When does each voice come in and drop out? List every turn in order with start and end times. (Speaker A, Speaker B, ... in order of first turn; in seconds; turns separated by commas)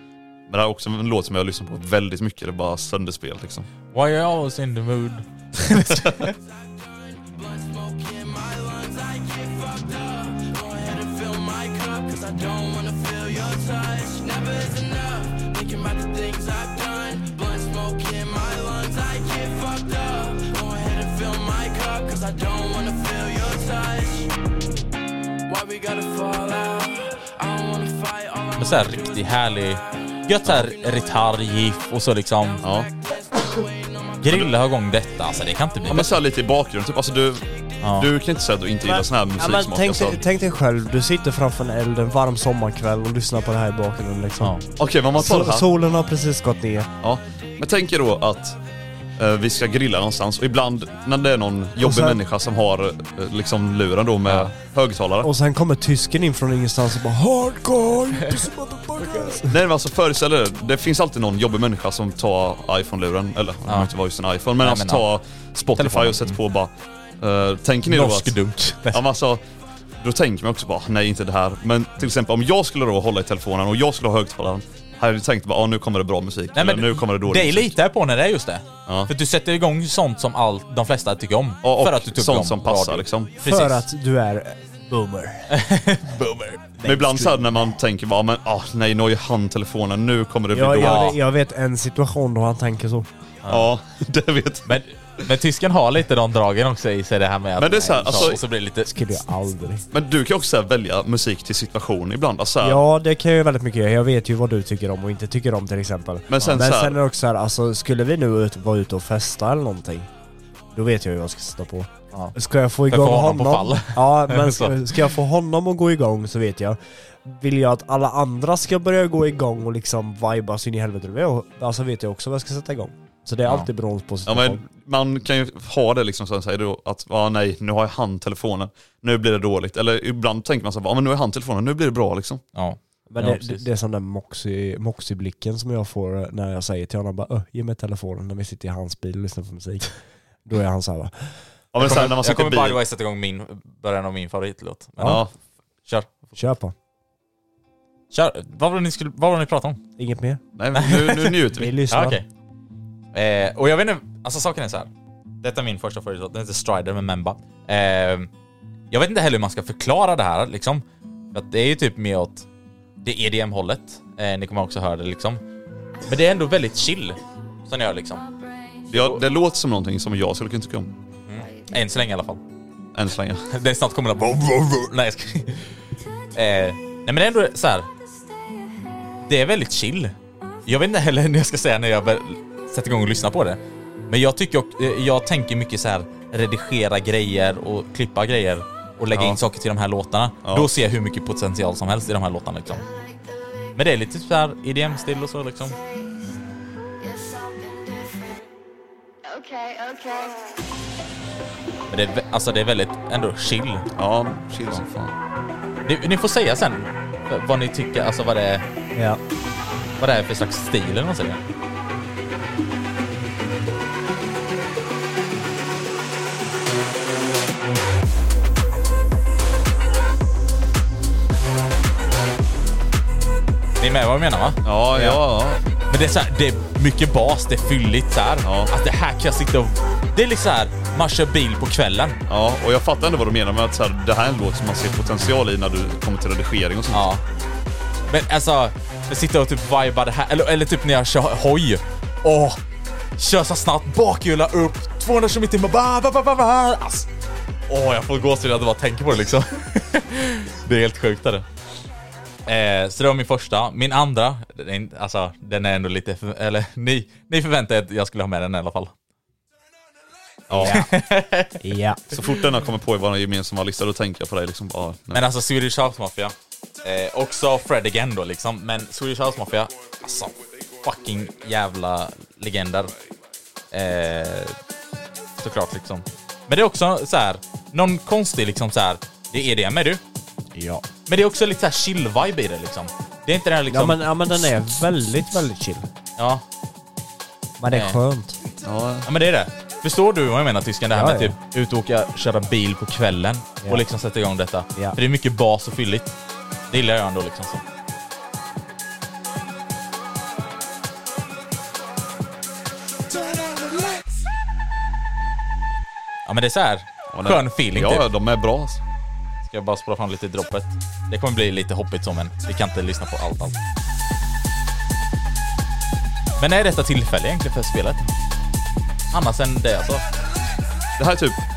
Speaker A: 0.5-3.7, Speaker B: 3.9-6.3, Speaker C: 6.3-24.3, Speaker C: 25.5-29.2, Speaker B: 28.6-32.6, Speaker A: 32.6-32.9, Speaker C: 32.6-34.5, Speaker B: 34.2-36.1, Speaker A: 35.9-40.2, Speaker B: 37.8-38.1, Speaker D: 38.8-44.6, Speaker A: 44.8-45.7, Speaker D: 45.1-46.9, Speaker A: 47.0-48.6, Speaker A: 49.2-55.3, Speaker D: 51.8-52.2, Speaker D: 55.2-59.6, Speaker A: 59.5-68.3, Speaker B: 64.6-65.1, Speaker B: 65.8-66.4, Speaker B: 67.9-69.0, Speaker A: 68.9-69.4, Speaker A: 70.0-77.7, Speaker B: 76.5-83.9, Speaker A: 78.9-79.1, Speaker A: 81.6-83.3, Speaker D: 83.4-85.5, Speaker B: 85.5-86.7, Speaker D: 86.8-87.7, Speaker A: 86.8-91.2, Speaker D: 90.5-93.1, Speaker B: 90.8-91.2, Speaker B: 93.5-93.7, Speaker A: 93.5-94.7, Speaker B: 94.7-99.0, Speaker A: 97.6-98.4, Speaker D: 98.8-99.8, Speaker A: 99.9-102.8, Speaker D: 102.6-110.1, Speaker A: 106.3-107.0, Speaker D: 110.7-124.6, Speaker B: 112.9-115.1, Speaker A: 124.3-132.4, Speaker B: 132.6-133.6, Speaker D: 133.1-141.3, Speaker A: 141.7-142.8, Speaker B: 141.8-145.2, Speaker A: 145.0-145.3, Speaker B: 145.9-146.3, Speaker D: 146.4-146.8, Speaker B: 148.1-149.8, Speaker D: 150.0-150.4, Speaker A: 150.6-151.8, Speaker B: 150.8-152.2, Speaker D: 151.5-152.2, Speaker B: 153.1-154.9, Speaker B: 155.4-158.3, Speaker B: 158.9-162.5, Speaker B: 163.0-165.4, Speaker B: 166.1-168.3, Speaker A: 168.9-170.9, Speaker B: 171.3-172.4, Speaker A: 172.9-173.5, Speaker B: 173.5-175.7, Speaker B: 176.3-177.9, Speaker B: 179.2-192.9, Speaker A: 189.1-189.4, Speaker A: 190.4-190.7, Speaker B: 193.8-195.8, Speaker C: 197.1-198.1, Speaker C: 199.3-200.4, Speaker B: 201.9-203.9, Speaker A: 204.0-205.1, Speaker B: 205.8-208.6, Speaker D: 208.9-209.2, Speaker B: 210.0-211.4, Speaker B: 223.8-225.2, Speaker A: 224.6-225.6, Speaker B: 225.9-232.2, Speaker A: 228.4-228.7, Speaker A: 232.3-237.0, Speaker B: 236.9-237.2, Speaker B: 238.1-242.6, Speaker B: 243.2-247.1, Speaker B: 247.7-251.5, Speaker B: 252.5-258.9, Speaker A: 260.5-260.9, Speaker B: 260.6-261.7, Speaker D: 260.6-260.9, Speaker D: 261.6-262.1, Speaker A: 262.1-265.2, Speaker B: 265.1-272.9, Speaker B: 273.7-274.6, Speaker B: 275.4-280.0, Speaker D: 280.5-280.9, Speaker B: 281.1-284.5, Speaker D: 283.7-285.9, Speaker B: 286.2-286.4, Speaker D: 287.6-288.4, Speaker B: 287.7-288.0, Speaker A: 288.6-289.1, Speaker B: 289.1-296.1, Speaker D: 290.9-291.4, Speaker B: 296.7-297.6, Speaker B: 306.3-308.1, Speaker A: 307.1-308.8, Speaker B: 309.5-313.6, Speaker B: 316.4-318.1, Speaker B: 319.1-320.0, Speaker A: 321.0-321.4